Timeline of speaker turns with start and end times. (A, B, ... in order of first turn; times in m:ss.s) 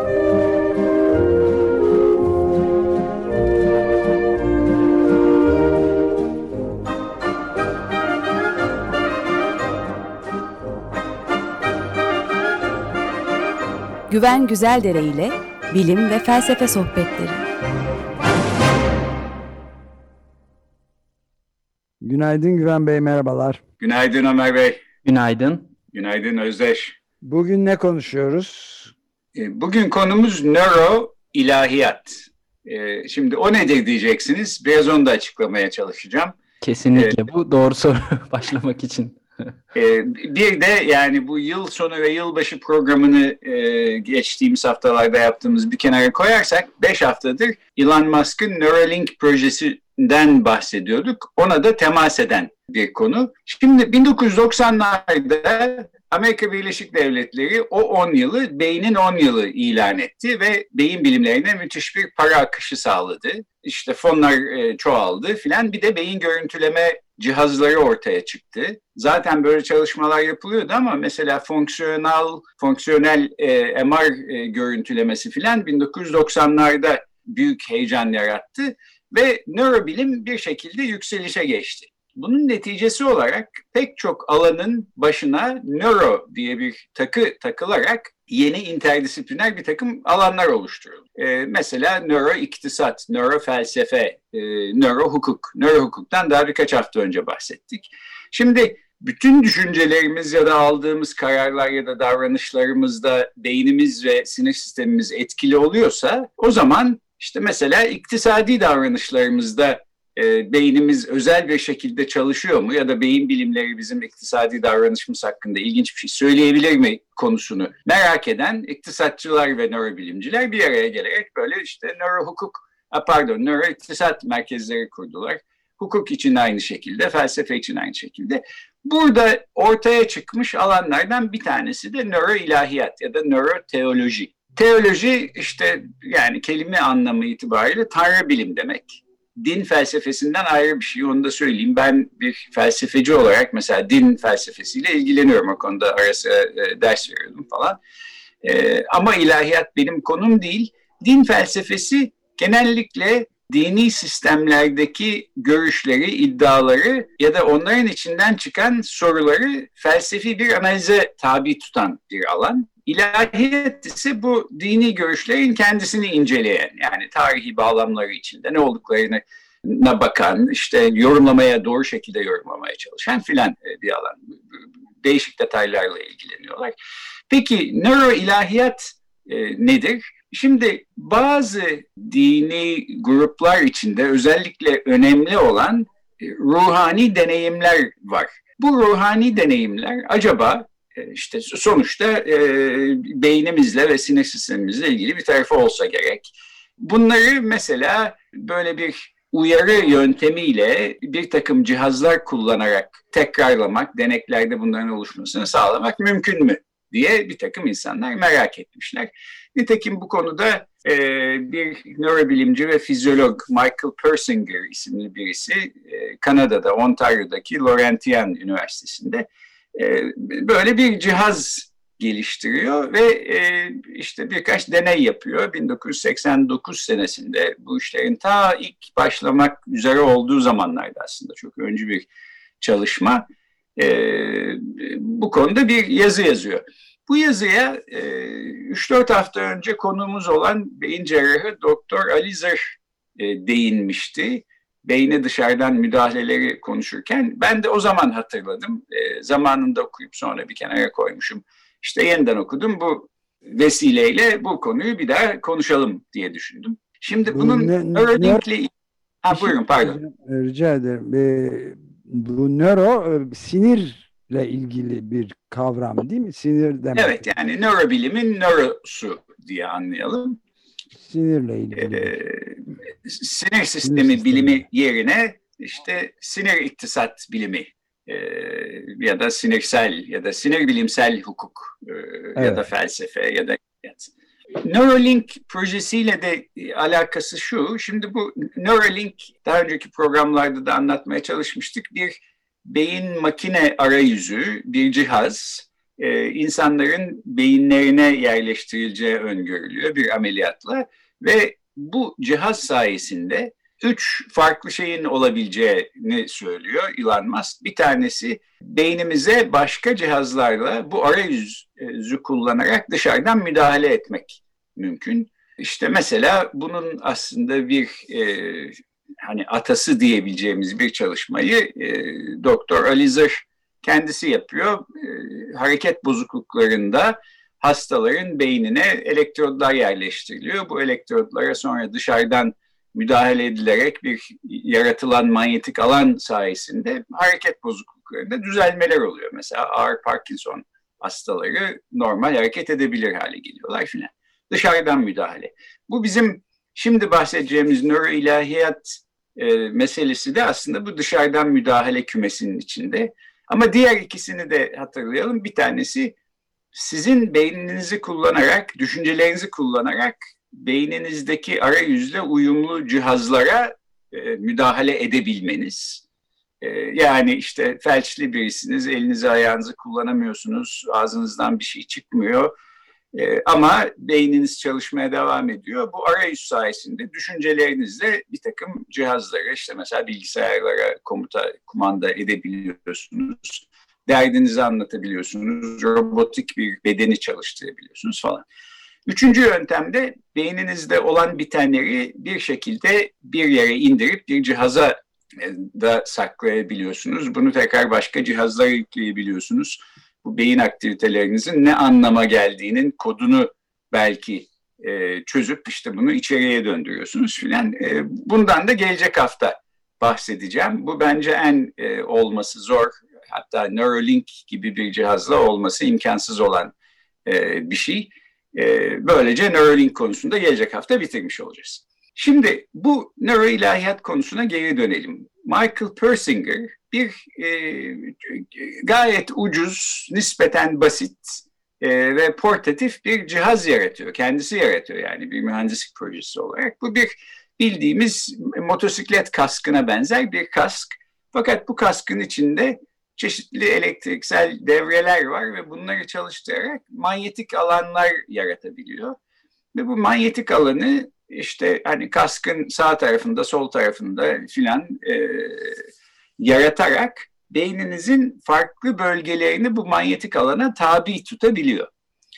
0:14.1-0:17.4 A
0:22.0-0:23.6 B
0:23.8-0:24.8 C
0:25.0-0:25.7 D
0:25.9-0:27.0 C
0:27.2-0:28.9 B
0:29.4-0:36.4 C
0:36.6-0:39.2 D
0:39.8-2:27.8 C
2:28.4-2:56.7 C
2:57.3-3:52.1 C
3:52.6-3:53.2 C
3:53.8-4:18.7 C
4:17.3-4:18.4 B
4:19.2-4:20.0 C
4:19.3-4:27.2 B
4:26.9-4:30.4 C
4:31.0-4:32.2 B
4:31.9-4:44.1 C
4:33.8-4:34.6 B
4:42.4-4:42.6 B
4:44.6-5:56.1 C
5:56.7-6:06.0 C
6:06.6-6:12.5 C
6:13.1-6:28.4 C
6:29.1-6:56.7 C
6:57.2-7:29.2 C
7:29.7-7:35.8 C
7:36.4-7:41.9 C